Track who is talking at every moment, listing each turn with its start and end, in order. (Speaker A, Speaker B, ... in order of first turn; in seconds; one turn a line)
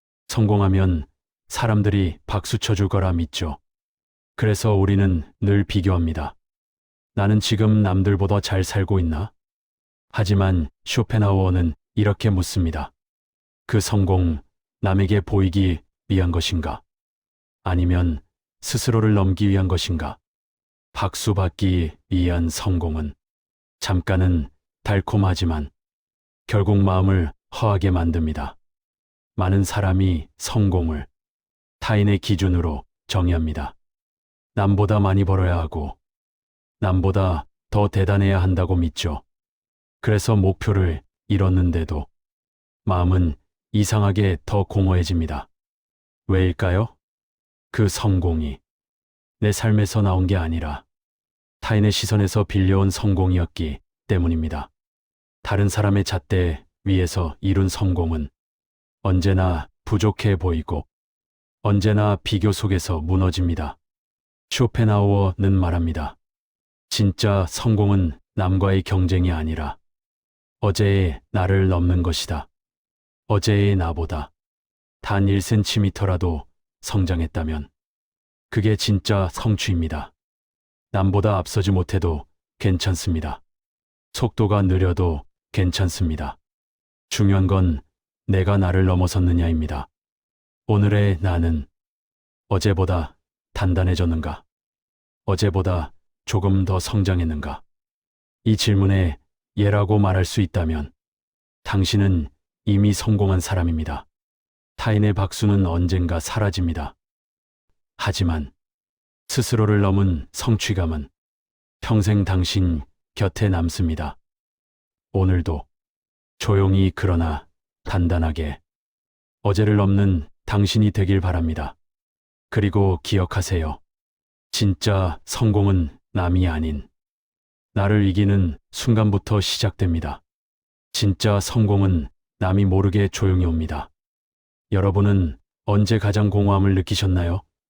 Speaker A: 0.3-3.6
Speaker A: 4.3-6.3
Speaker A: 7.1-9.3
Speaker A: 10.1-12.9
Speaker A: 13.7-16.8
Speaker A: 17.6-20.2
Speaker A: 20.9-23.1
Speaker A: 23.8-25.7
Speaker A: 26.5-28.6
Speaker A: 29.4-31.1
Speaker A: 31.8-33.8
Speaker A: 34.5-36.0
Speaker A: 36.8-39.2
Speaker A: 40.0-42.1
Speaker A: 42.8-45.5
Speaker A: 46.3-47.0
Speaker A: 47.7-48.6
Speaker A: 49.4-50.8
Speaker A: 51.6-54.7
Speaker A: 55.4-58.3
Speaker A: 59.0-60.9
Speaker A: 61.6-63.8
Speaker A: 64.5-66.2
Speaker A: 66.9-69.8
Speaker A: 70.6-72.5
Speaker A: 73.3-74.3
Speaker A: 75.0-77.7
Speaker A: 78.5-80.1
Speaker A: 80.9-83.4
Speaker A: 84.1-86.4
Speaker A: 87.1-89.9
Speaker A: 90.7-91.7
Speaker A: 92.5-94.4
Speaker A: 95.2-97.6
Speaker A: 98.4-100.9
Speaker A: 101.6-104.0
Speaker A: 104.8-106.9
Speaker A: 108.0-108.5
Speaker A: 109.3-111.1
Speaker A: 111.8-114.2
Speaker A: 115.1-115.7
Speaker A: 116.4-118.6
Speaker A: 119.4-121.8
Speaker A: 122.5-123.8
Speaker A: 124.5-126.9
Speaker A: 127.7-130.2
Speaker A: 130.9-133.9
Speaker A: 134.7-137.4